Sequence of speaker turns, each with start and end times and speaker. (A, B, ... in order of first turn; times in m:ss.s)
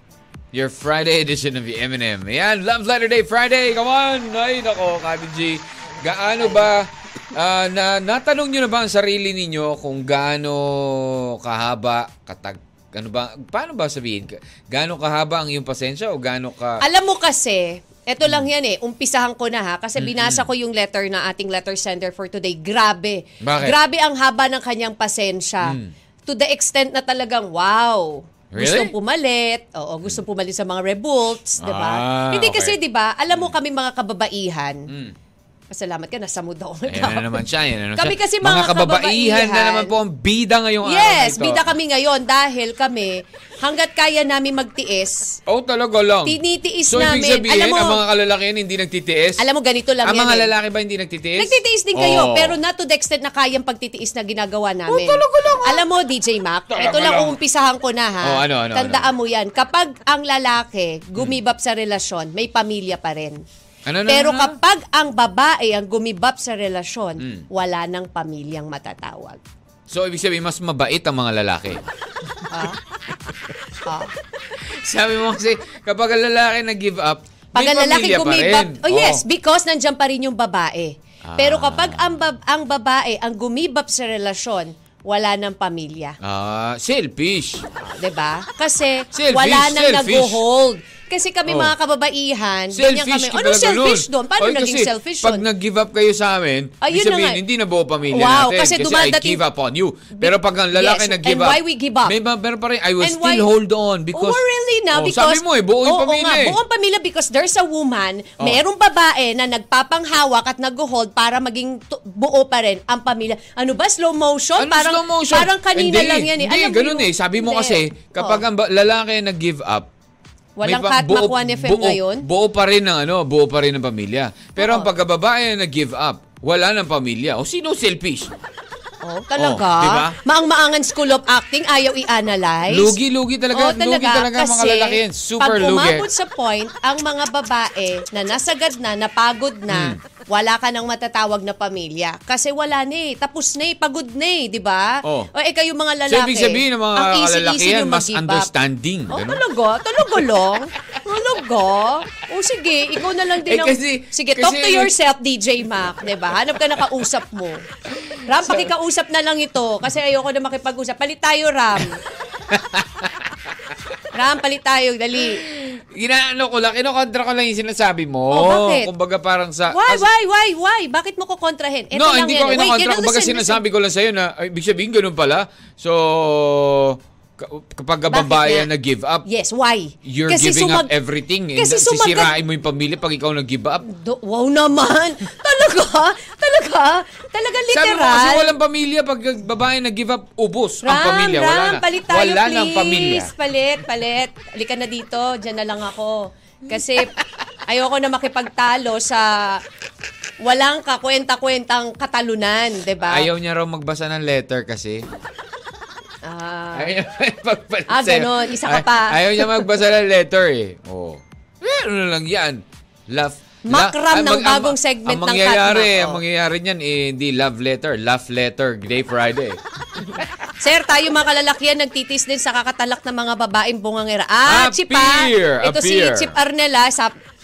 0:00.5-0:16.8 A
0:16.8-0:34.9 B
0:18.2-0:18.5 A
0:20.0-0:20.5 A
0:23.4-0:23.8 A
0:25.6-0:25.9 A
0:28.5-0:28.9 A
0:31.6-0:32.8 A
0:34.9-0:35.2 A
0:35.7-0:37.4 B
0:36.9-0:41.8 A
0:38.0-0:40.0 B
0:40.8-0:45.4 B
0:45.5-0:49.4 A
0:46.2-0:48.0 B
0:49.4-0:50.5 B
0:50.0-0:52.6 A
0:51.4-1:03.4 B
0:54.9-0:55.9 A
0:56.7-0:57.4 A
0:58.2-0:59.1 A
1:03.9-1:04.6 A
1:04.1-1:09.4 B
1:07.2-1:07.5 A
1:09.9-1:11.8 A
1:12.5-1:12.8 B
1:13.9-1:14.1 B
1:14.6-1:19.2 A
1:17.5-1:26.2 B
1:21.2-1:22.2 A
1:26.2-1:27.6 A
1:27.8-1:35.4 B
1:29.1-1:30.4 A
1:31.5-1:31.7 A
1:32.7-1:44.4 A
1:36.8-1:37.4 B
1:38.1-1:39.4 B
1:40.2-1:42.1 B
1:43.0-1:43.5 B
1:44.1-1:58.4 B
1:44.9-1:46.6 A
1:54.6-1:59.9 A
2:00.6-2:02.2 B
2:00.6-2:08.3 A
2:04.6-2:04.9 B
2:09.0-2:13.0 B
2:09.4-2:10.2 A
2:12.7-2:16.1 A
2:13.5-2:28.5 B
2:19.7-2:20.0 A
2:25.0-2:25.3 A
2:26.1-2:29.4 A
2:29.1-2:37.7 B
2:33.4-2:34.9 A
2:38.1-2:38.7 A
2:38.2-2:42.0 B
2:42.5-2:43.3 A
2:44.1-2:45.4 B
2:45.2-2:50.1 A
2:48.3-2:48.9 B
2:49.7-2:53.6 B
2:51.9-2:59.2 A
2:58.1-2:58.7 B
2:59.2-3:00.9 B
3:00.0-3:03.8 A
3:01.6-3:02.4 B
3:03.8-3:08.5 B
3:07.7-3:13.3 A
3:10.8-3:17.1 B
3:17.7-3:19.6 B
3:20.4-3:23.3 B
3:23.0-3:25.1 A
3:26.2-3:27.0 B
3:26.7-3:39.6 A
3:27.9-3:29.6 B
3:33.7-3:36.2 B
3:40.6-3:47.1 B
3:44.5-3:46.4 A